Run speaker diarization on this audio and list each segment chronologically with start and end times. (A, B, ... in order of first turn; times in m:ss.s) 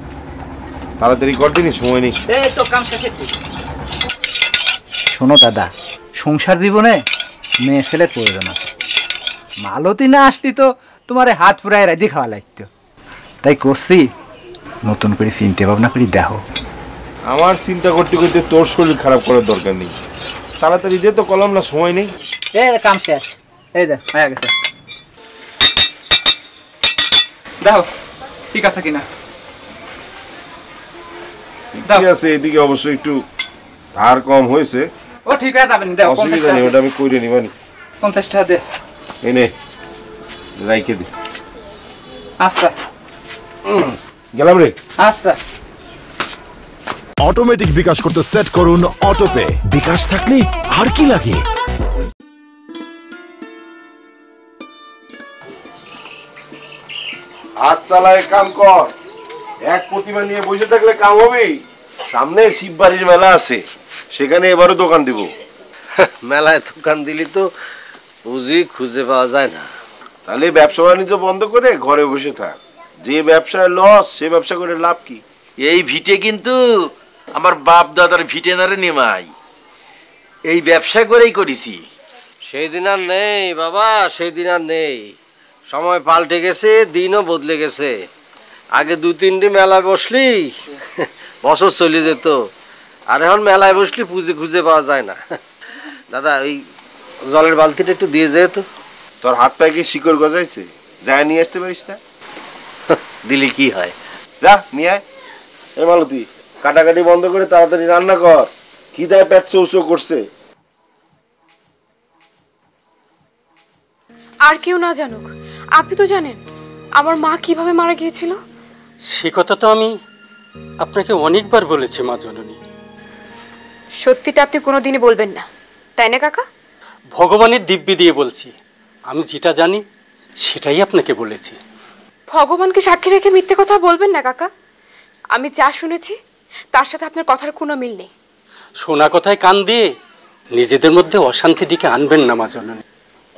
0:01.0-0:02.2 A
0:02.3-0:03.3 B
0:05.1-0:05.7 B
0:06.2-0:07.0 B
0:07.6-0:08.7 B
0:09.6-0:12.7 B
0:13.4-0:14.1 B
0:14.8-0:16.4 B
0:17.3-0:19.9 A
0:20.6-0:22.1 A
0:22.6-0:24.5 B
0:28.5-0:29.0 B
0:31.7-0:33.2 A
0:34.0-0:34.9 A
0:35.3-0:36.7 B
0:36.0-0:37.5 A
0:38.0-0:38.6 B
0:39.2-0:39.5 A
0:40.6-0:41.1 A
0:42.4-0:42.7 B
0:43.7-0:44.7 A
0:45.0-0:45.4 B
0:47.2-0:51.4 C
0:57.6-0:58.9 A
0:59.7-1:01.6 A
1:02.1-1:03.6 A
1:04.1-1:05.3 A
1:06.1-1:07.5 D
1:08.3-1:09.7 D
1:10.3-1:15.2 A
1:15.6-1:16.6 E
1:17.4-1:19.3 E
1:20.5-1:21.8 E
1:22.5-1:25.1 D
1:25.7-1:27.9 D
1:28.8-1:32.4 D
1:33.1-1:35.2 D
1:36.1-1:36.6 D
1:37.3-1:38.6 D
1:39.2-1:42.0 A
1:42.9-1:43.9 D
1:44.4-1:45.0 A
1:45.8-1:50.2 A
1:54.5-1:56.4 F
1:57.0-1:58.4 F
1:59.1-1:59.9 G
2:00.8-2:02.6 G
2:04.0-2:05.5 F
2:06.0-2:06.4 F
2:07.2-2:08.5 G
2:09.1-2:09.8 G
2:10.4-2:11.6 G
2:12.3-2:14.5 F
2:15.3-2:16.2 F
2:16.7-2:18.1 F
2:18.8-2:19.9 G
2:20.6-2:22.8 G